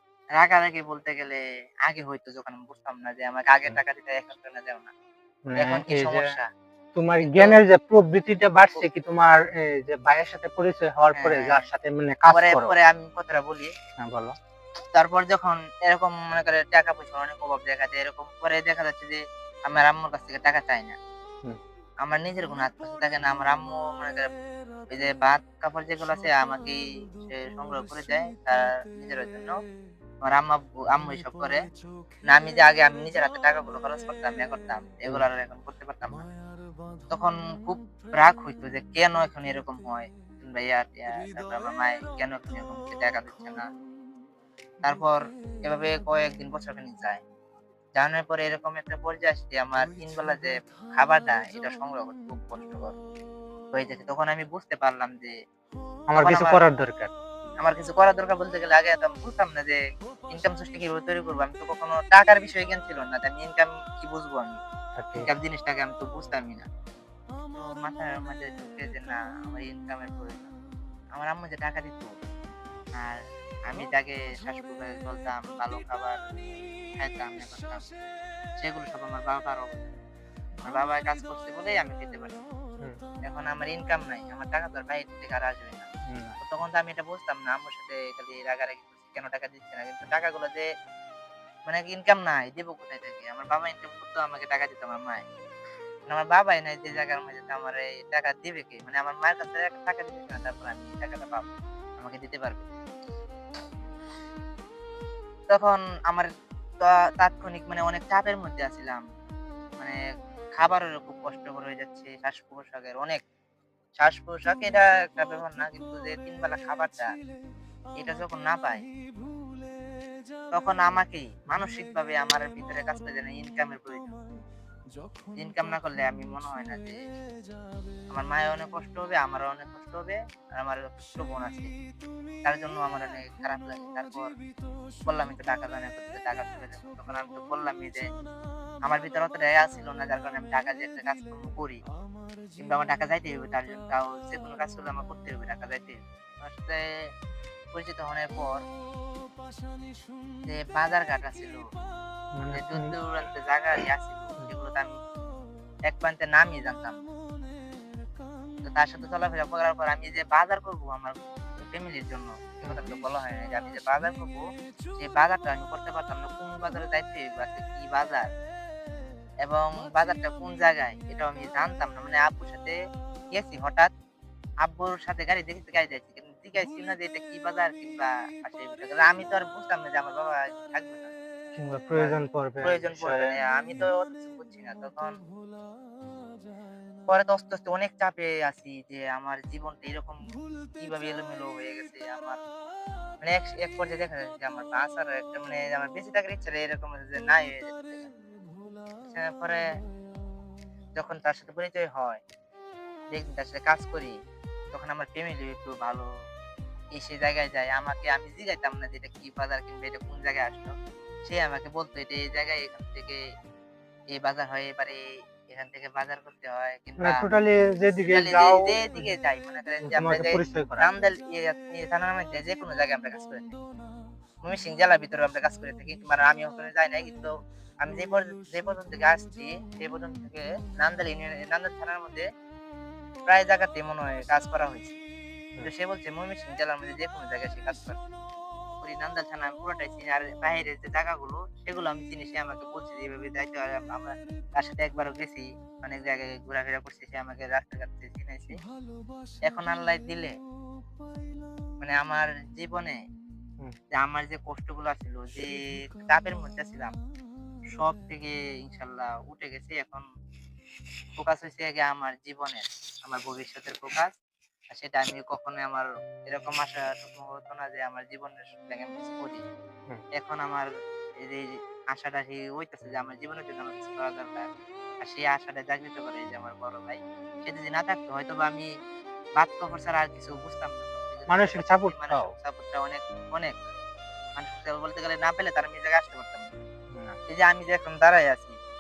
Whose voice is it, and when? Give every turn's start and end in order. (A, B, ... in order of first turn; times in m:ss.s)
0:00.4-0:04.9 A
0:05.5-0:06.3 B
0:05.6-0:06.5 A
0:07.0-0:12.7 B
0:07.2-0:07.6 A
0:11.1-0:11.6 A
0:12.3-0:13.7 A
0:14.0-0:14.4 B
0:14.9-0:21.0 A
0:22.0-0:24.3 A
0:24.9-0:29.6 A
0:30.2-0:31.6 A
0:32.3-0:36.3 A
0:37.1-0:43.7 A
0:44.8-0:47.2 A
0:48.0-0:53.0 A
0:53.7-0:55.4 A
0:56.1-0:57.1 B
0:56.2-0:56.6 A
0:57.6-1:04.6 A
1:05.0-1:05.3 B
1:05.2-1:06.7 A
1:07.5-1:10.5 A
1:11.2-1:12.1 A
1:13.0-1:16.2 A
1:17.0-1:17.8 A
1:18.6-1:20.0 A
1:20.6-1:22.5 A
1:23.2-1:25.9 A
1:26.1-1:26.4 B
1:26.4-1:30.7 A
1:31.7-1:35.2 A
1:36.1-1:41.5 A
1:42.0-1:42.7 A
1:45.5-1:46.3 A
1:46.8-1:49.0 A
1:50.6-1:53.2 A
1:54.0-1:57.1 A
1:58.0-1:58.8 A
2:00.5-2:04.1 A
2:05.4-2:07.0 A
2:08.1-2:11.7 A
2:12.4-2:14.3 A
2:15.0-2:18.1 A
2:18.8-2:21.8 A
2:22.6-2:26.8 A
2:27.7-2:28.6 A
2:30.5-2:31.7 A
2:32.4-2:33.0 B
2:32.5-2:35.0 A
2:35.9-2:37.0 A
2:38.6-2:44.5 A
2:45.0-2:48.3 A
2:49.4-2:52.8 A
2:53.3-2:53.9 A
2:54.6-3:01.1 A
3:01.6-3:03.4 B
3:02.0-3:05.2 A
3:07.1-3:12.4 A
3:13.2-3:18.1 A
3:19.0-3:19.6 A
3:21.0-3:22.2 A
3:23.1-3:24.2 A
3:24.7-3:26.1 A
3:27.0-3:30.7 A
3:31.3-3:33.2 A
3:34.1-3:37.2 A
3:37.0-3:39.0 B
3:38.1-3:43.6 A
3:39.8-3:40.9 B
3:44.4-3:52.3 A
3:53.3-3:55.0 A
3:55.6-3:58.0 A
3:58.8-4:08.6 A
4:09.4-4:10.4 A
4:11.8-4:13.0 A
4:13.9-4:16.9 A
4:17.8-4:20.0 A
4:21.2-4:24.1 A
4:24.7-4:29.4 A
4:30.2-4:30.7 A
4:31.2-4:34.5 A
4:35.0-4:38.7 A
4:39.4-4:43.6 A
4:41.3-4:42.3 B
4:44.4-4:46.5 A
4:46.9-4:47.2 B
4:47.3-4:48.6 A